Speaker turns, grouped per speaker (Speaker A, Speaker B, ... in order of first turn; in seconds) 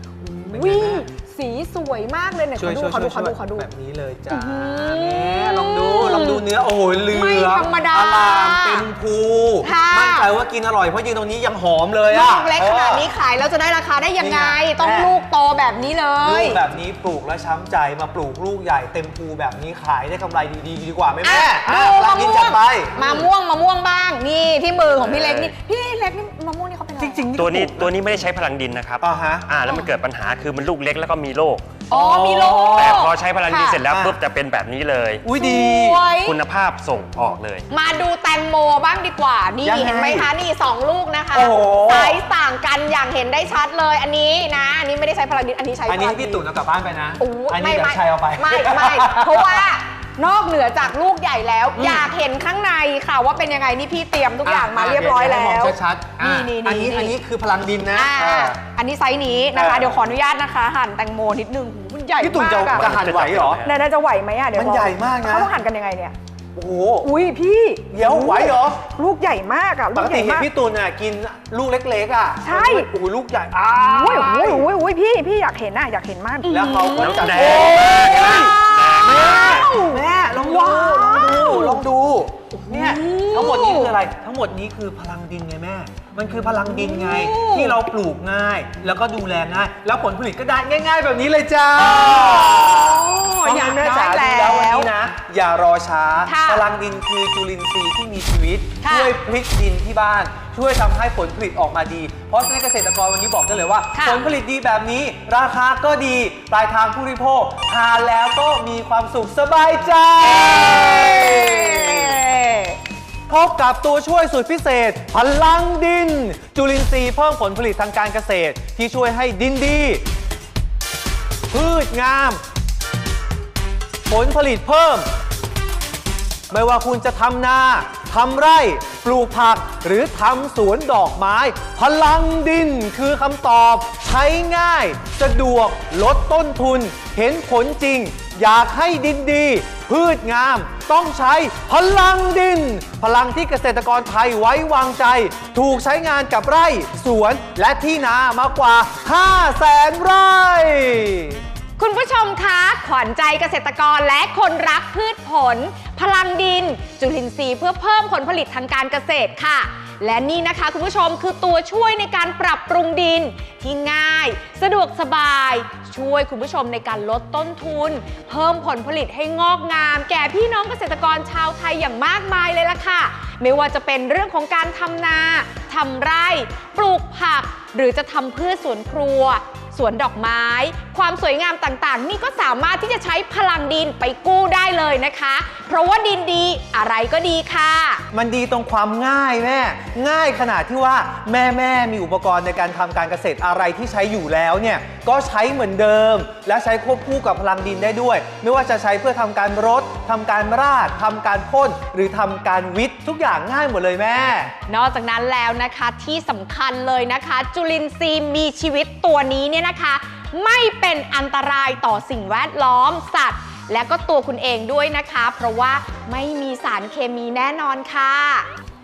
Speaker A: 0.2-1.0, 2.6-13.1, 14.2-15.1, 16.2-23.3, 27.0-28.0, 29.0-29.5, 31.9-33.1, 33.9-34.2, 35.2-36.0, 39.6-40.3, 41.3-42.2, 45.9-49.6, 51.7-52.1, 54.4-58.6, 59.5-60.0, 62.2-63.6, 64.5-65.5, 66.5-67.1, 67.9-68.8, 69.9-74.7, 76.4-112.2, 113.3-120.0, 121.5-122.4, 124.1-125.1, 126.5-151.4, 188.1-204.5
Speaker B: 0.4-3.7, 4.3-6.4, 7.1-8.9, 9.6-10.3, 12.1-16.6, 21.2-27.2, 31.9-33.8, 35.3-36.4, 37.7-46.4, 47.2-57.2, 57.9-62.9, 63.6-66.1, 67.0-70.5, 72.4-72.9, 73.8-81.8, 82.5-83.9, 86.2-87.8, 91.8-94.9, 96.3-96.6, 98.8-99.1, 103.9-104.3, 110.2-112.8, 151.8-188.0, 204.7-218.5
Speaker C: 24.9-25.5, 27.4-31.8, 32.7-35.2, 36.2-37.7, 62.7-63.7, 77.0-79.7